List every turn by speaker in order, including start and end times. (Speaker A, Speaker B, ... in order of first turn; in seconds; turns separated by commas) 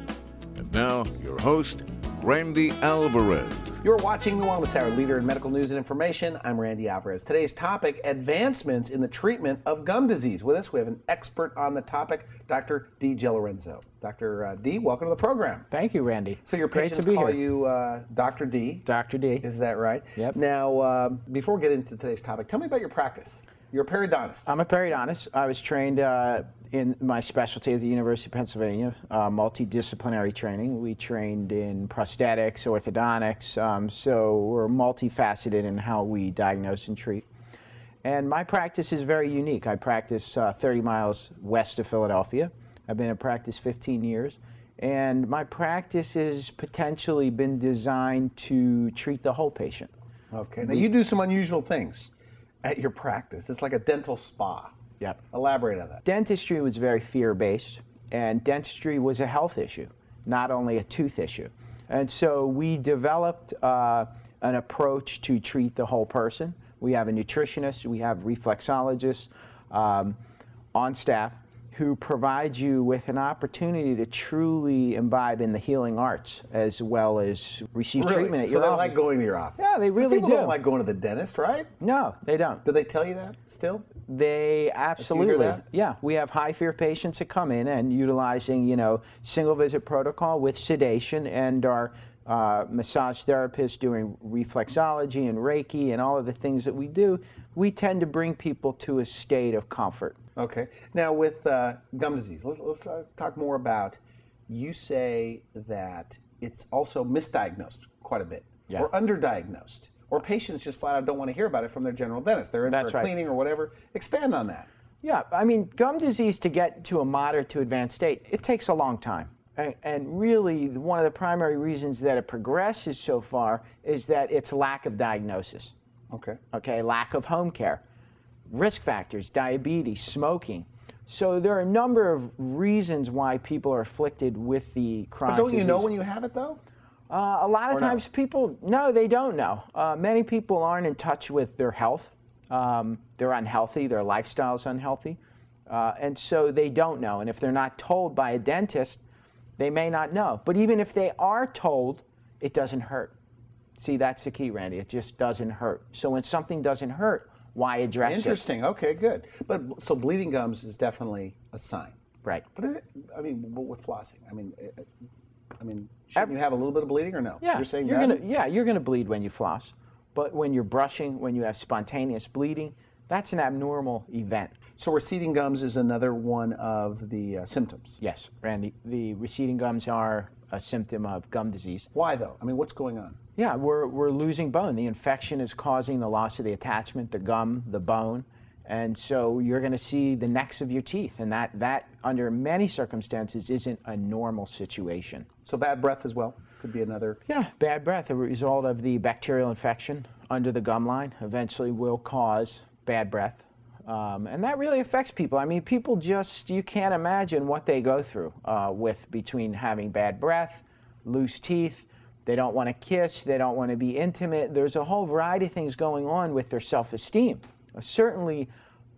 Speaker A: 0.6-3.8, Speaker B: 3.8-15.7, Speaker C: 15.7-17.4, Speaker B: 16.4-18.8, Speaker C: 18.8-19.4, Speaker B: 19.4-24.5, Speaker C: 24.5-37.2, Speaker C: 38.0-49.9, Speaker B: 50.3-52.1, Speaker B: 52.6-54.8, Speaker B: 55.3-56.0, Speaker C: 56.0-70.2, Speaker C: 70.7-79.0, Speaker B: 78.0-81.7, Speaker C: 79.6-80.6, Speaker C: 81.8-82.6, Speaker B: 82.6-83.9, Speaker C: 84.0-100.2, Speaker B: 85.0-85.6, Speaker B: 100.4-114.7, Speaker C: 112.7-113.1, Speaker C: 115.0-125.7, Speaker B: 126.1-126.4, Speaker C: 126.5-127.8, Speaker C: 128.5-135.9, Speaker B: 135.2-136.6, Speaker C: 137.1-149.0, Speaker B: 137.7-138.0, Speaker C: 149.6-153.1, Speaker C: 153.8-158.4, Speaker B: 158.0-162.0, Speaker B: 162.5-164.9, Speaker B: 165.6-168.2, Speaker C: 167.4-174.6, Speaker B: 174.8-178.0, Speaker C: 178.0-181.9, Speaker B: 181.9-183.2, Speaker C: 183.3-195.3, Speaker B: 195.4-197.2, Speaker C: 197.3-218.5